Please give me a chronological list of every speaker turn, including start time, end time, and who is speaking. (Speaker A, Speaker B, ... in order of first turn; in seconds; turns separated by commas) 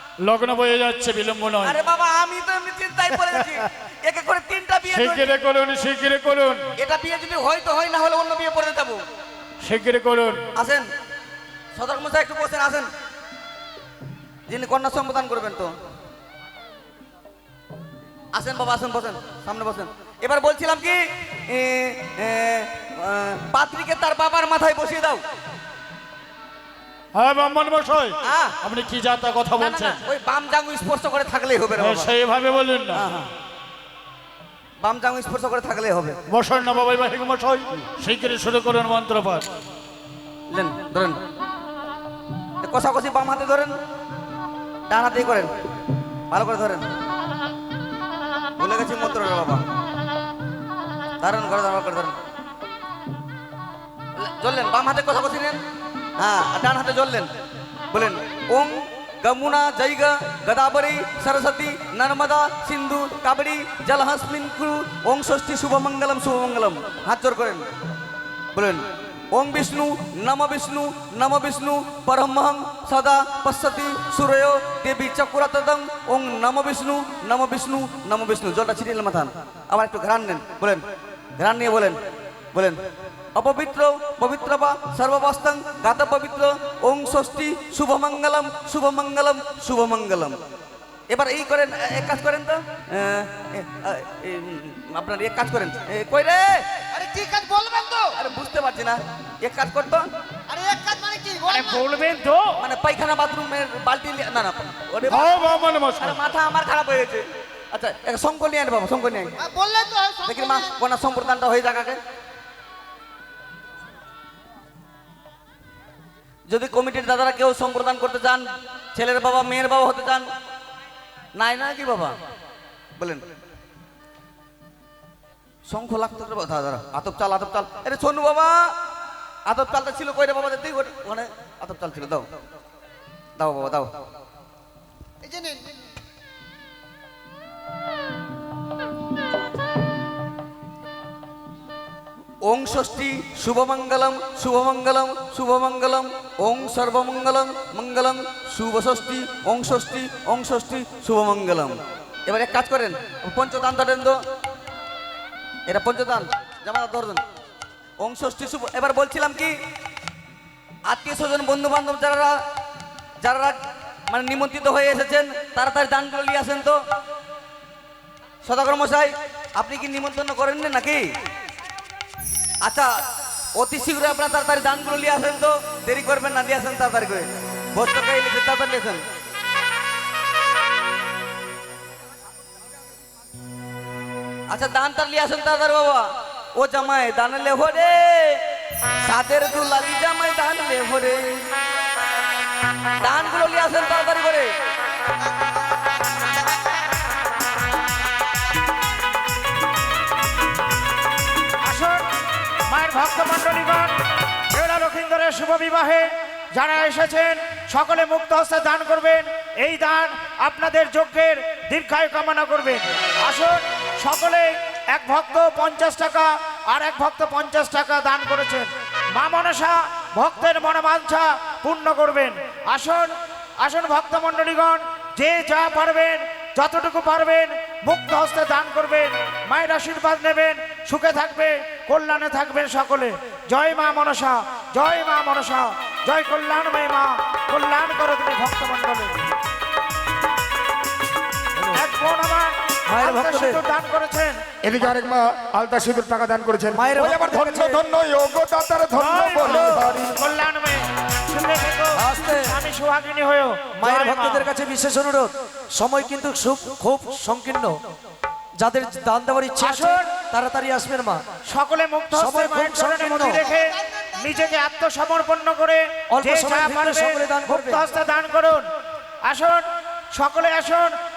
Speaker A: 0.2-1.8, Speaker B: 1.6-5.3, Speaker A: 4.9-6.6, Speaker B: 6.8-9.0, Speaker A: 9.6-10.4, Speaker B: 10.6-10.8, Speaker B: 11.8-12.9, Speaker B: 14.5-15.7, Speaker B: 18.3-25.2, Speaker A: 27.1-30.0, Speaker B: 28.2-28.6, Speaker B: 29.6-32.1, Speaker A: 31.8-33.1, Speaker B: 32.9-33.3, Speaker B: 34.8-36.2, Speaker A: 36.3-39.5, Speaker B: 40.5-41.2, Speaker B: 42.6-43.8, Speaker B: 44.9-45.5, Speaker B: 46.3-46.9, Speaker B: 48.6-49.6, Speaker B: 51.2-52.1, Speaker B: 54.2-55.6, Speaker B: 56.2-57.3, Speaker B: 57.9-67.7, Speaker B: 68.5-80.8, Speaker B: 81.4-82.0, Speaker B: 82.5-82.8, Speaker B: 83.3-90.4, Speaker B: 91.1-96.7, Speaker C: 96.9-98.1, Speaker B: 98.2-100.1, Speaker C: 100.5-101.8, Speaker D: 101.5-102.6, Speaker B: 102.6-105.5, Speaker A: 105.1-106.2, Speaker B: 106.0-109.3, Speaker C: 109.4-110.8, Speaker B: 110.2-112.0, Speaker B: 116.5-118.4, Speaker B: 119.0-120.3, Speaker B: 121.4-122.2, Speaker B: 123.0-123.2, Speaker B: 125.7-128.7, Speaker B: 129.5-132.3, Speaker B: 133.4-133.9, Speaker C: 135.2-135.7, Speaker B: 142.4-154.2, Speaker B: 155.7-157.2, Speaker B: 158.0-159.5, Speaker B: 160.9-162.3, Speaker B: 163.2-163.6, Speaker B: 164.1-166.8, Speaker B: 168.4-171.0, Speaker B: 172.6-172.9, Speaker B: 173.6-179.0, Speaker B: 184.5-188.4, Speaker B: 189.0-191.4, Speaker B: 193.0-194.5, Speaker D: 201.6-202.1, Speaker D: 202.7-203.9, Speaker D: 204.5-239.3, Speaker D: 241.7-244.4, Speaker E: 244.6-250.2, Speaker D: 248.9-254.5, Speaker F: 254.7-257.8, Speaker F: 258.6-261.2, Speaker D: 259.5-260.1, Speaker D: 261.5-268.7, Speaker D: 269.2-270.9